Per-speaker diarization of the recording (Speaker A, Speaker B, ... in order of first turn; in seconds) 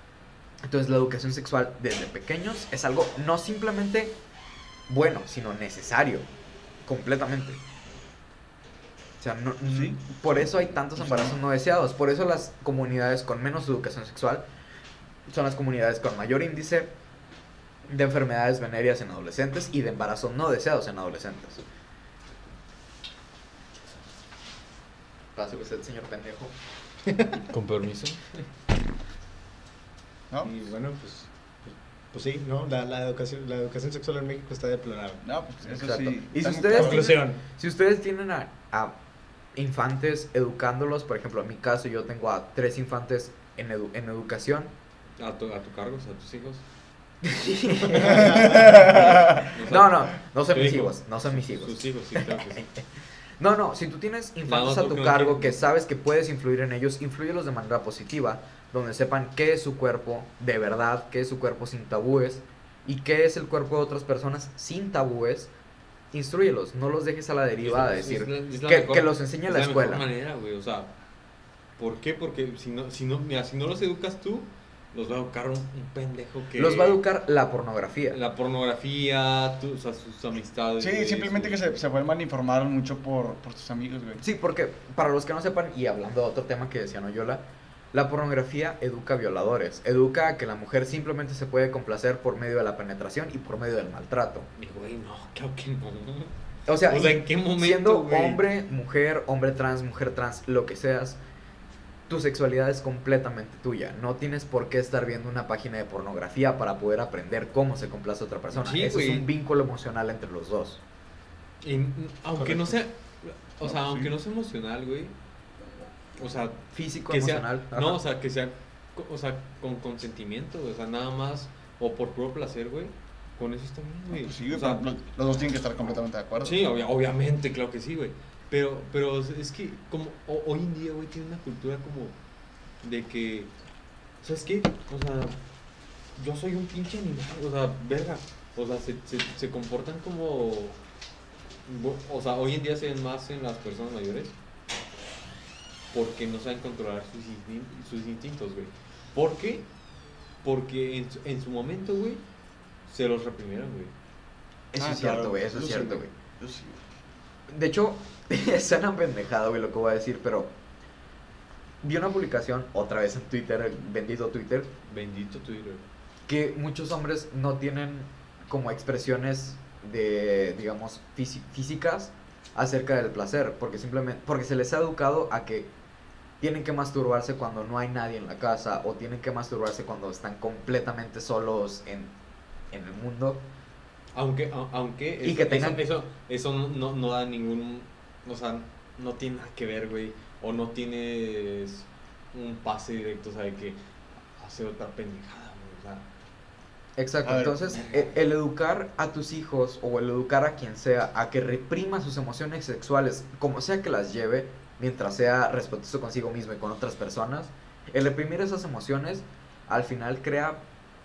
Speaker A: 0.6-4.2, 4.9-6.2, 6.8-7.6, 9.2-14.4, 15.3-16.9, 17.9-21.6, 25.4-26.5, 35.7-39.0, 39.5-44.7, 47.2-52.8, 53.4-65.5, 66.1-70.0, 76.5-78.2, 84.2-94.5, 96.7-101.2, 102.1-110.8, 116.7-118.0, 154.7-156.1, 157.5-160.5, 161.8-164.7, 166.3-175.7, 176.4-182.1, 182.7-183.4, 185.2-185.8, 197.0-210.6
Speaker B: 9.7-10.0, 11.0-11.3, 35.2-37.2, 48.1-49.4, 80.8-84.2, 113.6-114.1, 124.1-126.5, 154.8-156.8, 197.2-197.6
Speaker C: 27.1-27.4, 30.4-35.2, 36.7-37.4, 47.9-48.8, 112.4-112.8
Speaker D: 27.5-28.4, 45.2-46.6, 48.2-52.6, 54.5-55.6, 67.6-70.9, 71.8-77.0, 78.1-81.7, 94.5-96.3, 96.9-98.4, 108.5-109.2, 111.6-115.1, 116.2-124.8, 126.4-132.1, 132.8-133.5, 134.2-135.4, 136.2-140.8, 141.7-144.3, 145.9-149.7, 150.4-152.2, 152.9-153.9, 164.9-165.8, 184.1-193.8, 194.3-196.0, 197.7-198.1